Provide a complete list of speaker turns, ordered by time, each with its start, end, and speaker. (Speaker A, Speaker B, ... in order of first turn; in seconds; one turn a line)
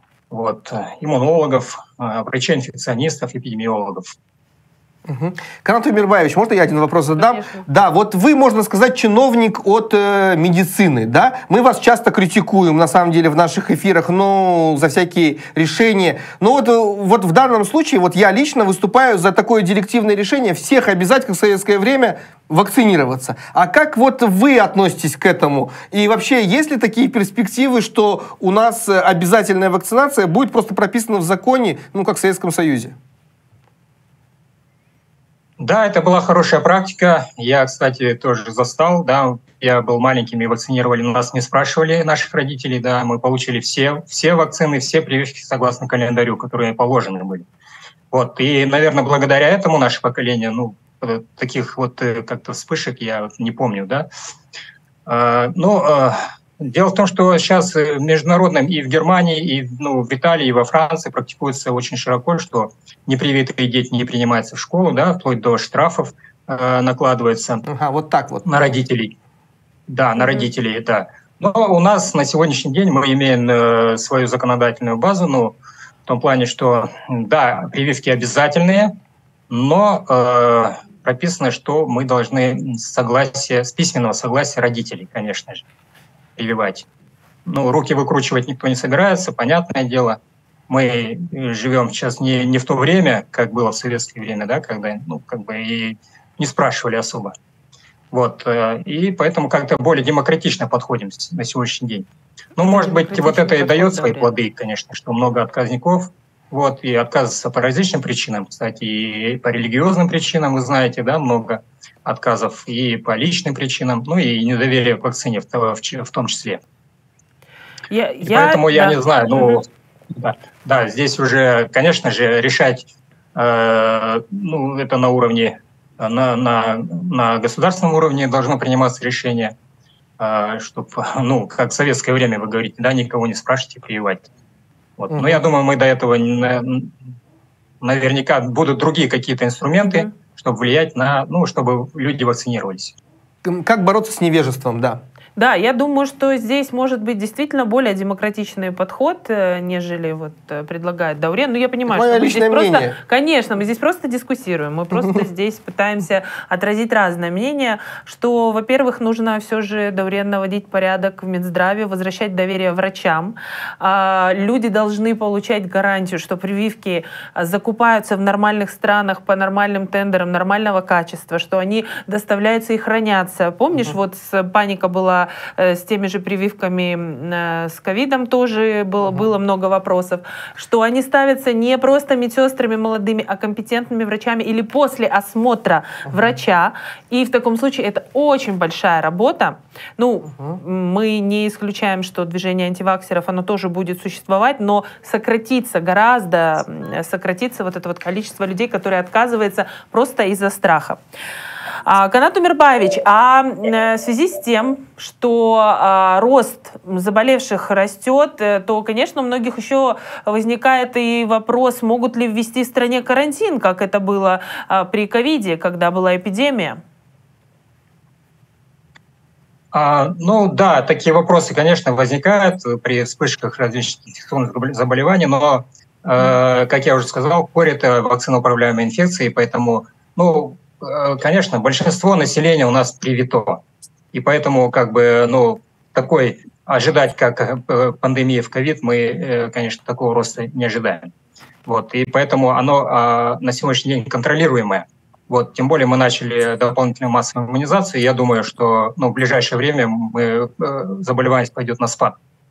Speaker A: 0.3-4.2
Speaker B: 5.1-33.0
Speaker C: 7.2-7.7
Speaker A: 35.6-47.5
Speaker A: 48.1-54.1
Speaker A: 55.1-67.7
Speaker B: 67.7-68.5
Speaker A: 68.5-69.2
Speaker A: 69.9-79.0
Speaker C: 70.2-70.5
Speaker A: 79.5-85.7
Speaker A: 86.4-86.9
Speaker A: 87.5-97.3
Speaker A: 98.1-116.6
Speaker C: 102.7-104.3
Speaker C: 117.9-119.6
Speaker A: 118.2-129.6
Speaker A: 130.2-134.3
Speaker A: 135.0-137.0
Speaker B: 135.1-135.4
Speaker A: 137.8-143.0
Speaker B: 143.4-145.0
Speaker C: 145.4-201.0
Speaker B: 151.9-153.0
Speaker B: 186.1-186.3
Speaker B: 190.3-190.6
Speaker C: 201.8-216.8
Speaker A: 219.7-233.6
Speaker A: 234.1-241.1
Speaker A: 241.7-252.2